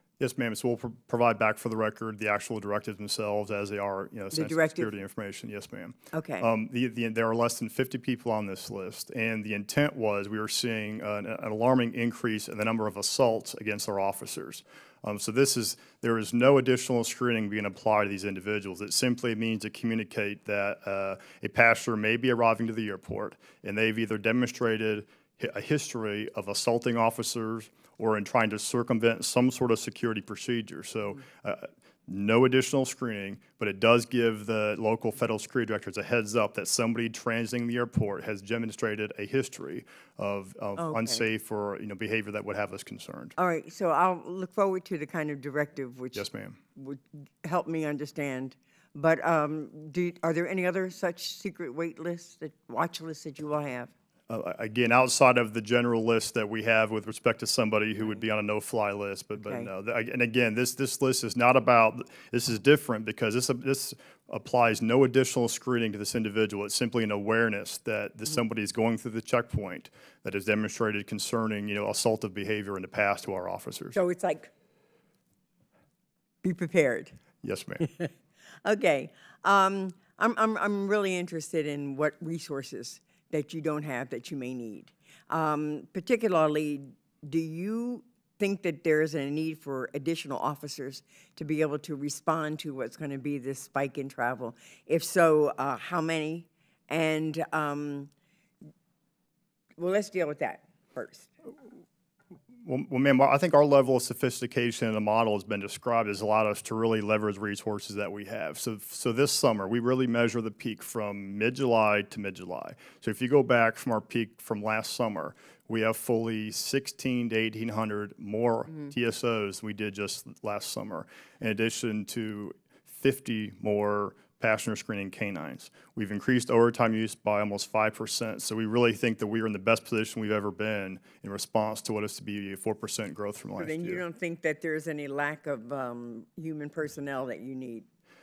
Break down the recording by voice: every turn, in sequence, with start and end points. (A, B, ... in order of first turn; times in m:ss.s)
0:00.2-0:43.4 A
0:04.3-0:04.9 B
0:06.1-0:06.5 B
0:40.8-0:41.2 B
0:43.4-0:53.9 B
0:46.1-0:46.6 A
0:54.3-1:14.0 A
0:59.4-0:59.7 B
1:13.9-1:14.5 B
1:16.4-1:17.1 B
1:17.4-1:17.9 A
1:18.6-1:38.1 B
1:39.8-1:41.3 B
1:42.6-2:14.0 A
2:13.6-2:17.9 B